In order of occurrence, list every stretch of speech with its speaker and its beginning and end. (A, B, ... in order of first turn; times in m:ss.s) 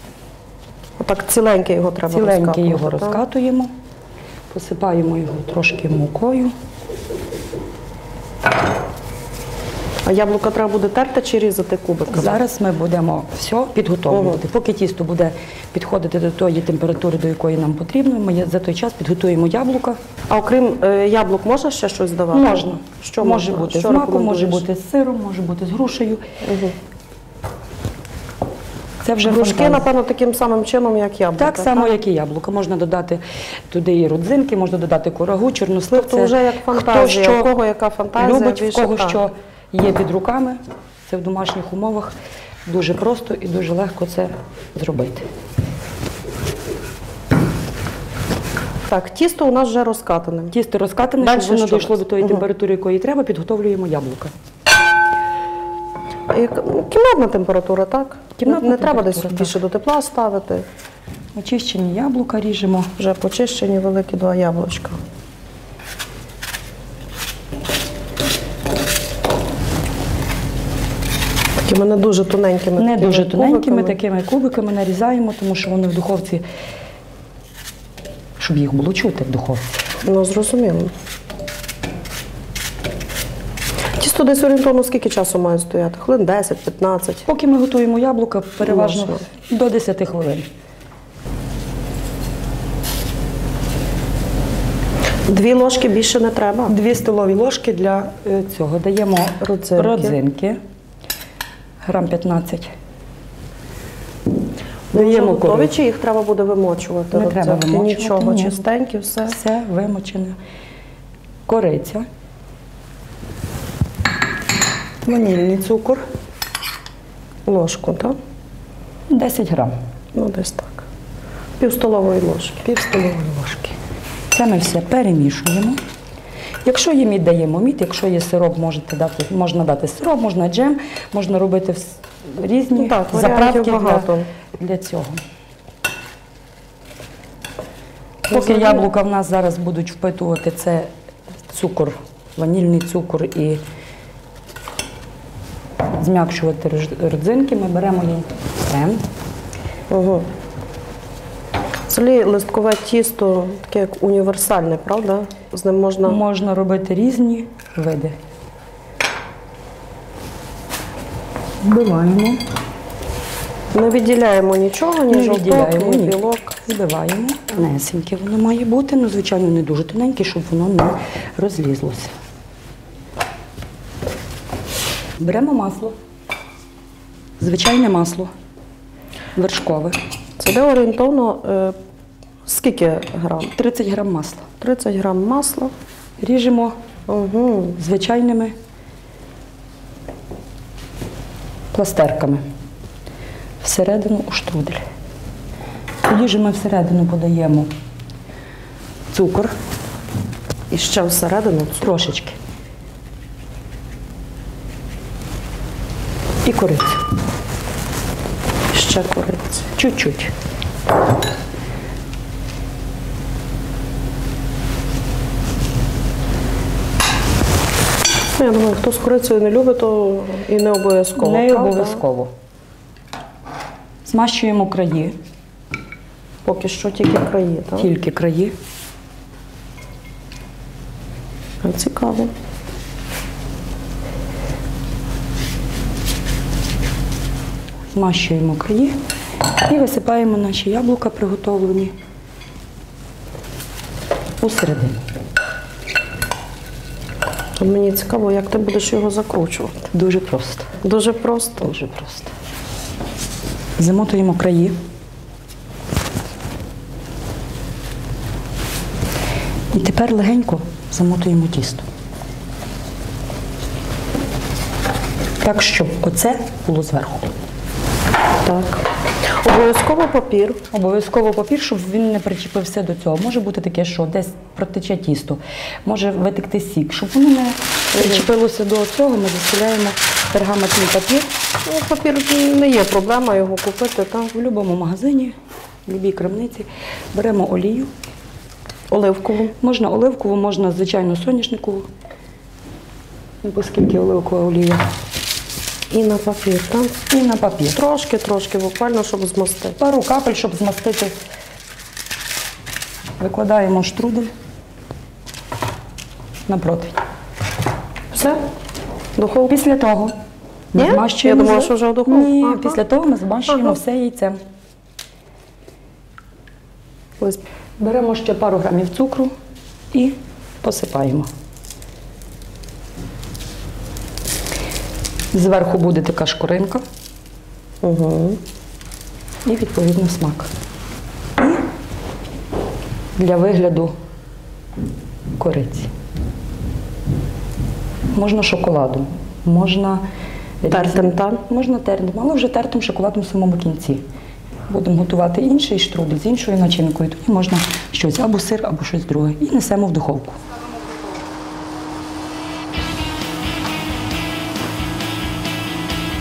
0:01.0-0:03.2 A
0:02.1-0:03.7 B
0:04.5-0:06.5 B
0:10.0-0:12.4 A
0:12.1-0:20.0 B
0:14.1-0:14.4 A
0:20.3-0:24.6 A
0:22.3-0:26.2 B
0:26.4-0:26.8 A
0:29.0-0:29.8 B
0:29.2-0:31.9 A
0:31.4-0:37.5 B
0:35.9-0:39.2 A
0:38.2-0:42.1 B
0:42.6-0:45.3 B
0:48.9-0:50.6 A
0:50.5-0:54.3 B
0:51.2-0:52.4 A
0:56.3-1:00.6 A
0:58.4-0:59.6 B
1:01.3-1:02.9 B
1:03.0-1:05.0 A
1:11.6-1:14.0 A
1:12.8-1:16.4 B
1:18.4-1:19.8 B
1:20.0-1:20.9 A
1:23.9-1:27.3 A
1:27.2-1:30.5 B
1:28.6-1:29.2 A
1:35.3-1:36.8 A
1:36.7-1:40.6 B
1:39.4-1:40.2 A
1:41.8-1:42.7 B
1:44.9-1:45.8 B
1:44.9-1:49.4 A
1:47.1-1:48.6 B
1:49.3-1:50.4 B
1:51.5-1:52.0 B
1:55.0-1:56.0 B
1:57.5-1:58.2 A
1:59.1-1:59.7 B
2:00.1-2:00.8 A
2:01.6-2:02.7 A
2:02.6-2:03.8 B
2:04.3-2:05.8 B
2:06.6-2:15.2 B
2:12.7-2:14.3 A
2:18.3-2:18.8 A
2:18.3-2:20.9 B
2:21.5-2:23.6 B
2:26.0-2:29.0 B
2:29.9-2:30.3 A
2:31.9-2:36.2 A
2:36.0-2:38.2 B
2:41.6-2:42.4 B
2:43.7-2:46.6 A
2:45.1-2:52.1 B
2:55.2-2:56.0 B
2:57.4-2:58.3 B
2:59.3-3:00.0 B
3:00.4-3:01.8 A
3:02.4-3:03.5 A
3:03.5-3:04.4 B
3:04.6-3:05.7 A
3:06.2-3:06.8 B
3:07.1-3:07.8 A
3:07.8-3:08.5 B
3:11.7-3:12.4 B
3:13.6-3:14.8 B
3:16.0-3:17.7 B
3:19.1-3:19.5 B
3:20.7-3:21.9 A
3:21.8-3:22.4 B
3:26.4-3:27.0 B
3:28.7-3:29.7 A
3:29.7-3:30.3 B
3:38.4-3:42.0 A
3:41.2-3:42.3 B
3:44.0-3:45.2 B
3:46.4-3:47.9 A
3:47.8-3:48.5 B
3:51.6-3:52.3 A
3:57.9-3:59.0 B
3:59.6-4:01.9 B
4:04.4-4:05.0 B
4:07.6-4:09.9 A
4:09.9-4:10.7 B
4:10.8-4:11.8 A
4:11.6-4:12.3 B
4:13.8-4:14.7 B
4:19.7-4:21.8 B
4:25.4-4:27.3 B
4:28.4-4:30.6 A
4:30.7-4:41.3 B
4:37.9-4:38.3 A
4:41.6-4:44.3 A
4:44.3-4:47.9 B
4:48.9-4:49.5 A
4:49.6-4:51.9 B
4:53.4-4:54.8 B
4:55.9-4:57.0 A
4:57.1-4:57.8 B
4:57.7-4:59.8 A
4:59.8-5:01.1 B
5:03.2-5:04.3 B
5:06.5-5:07.0 B
5:08.1-5:08.4 A
5:09.2-5:09.6 A
5:09.5-5:10.1 B
5:10.7-5:14.4 B
5:10.8-5:12.8 A
5:13.5-5:13.7 A
5:17.8-5:19.3 B
5:19.9-5:21.3 B
5:25.3-5:26.8 B
5:27.8-5:28.4 A
5:29.4-5:30.5 B
5:33.2-5:33.9 B
5:35.4-5:35.9 B
5:38.1-5:40.0 B
5:40.6-5:44.0 B
5:40.7-5:41.4 A
5:44.7-5:50.4 B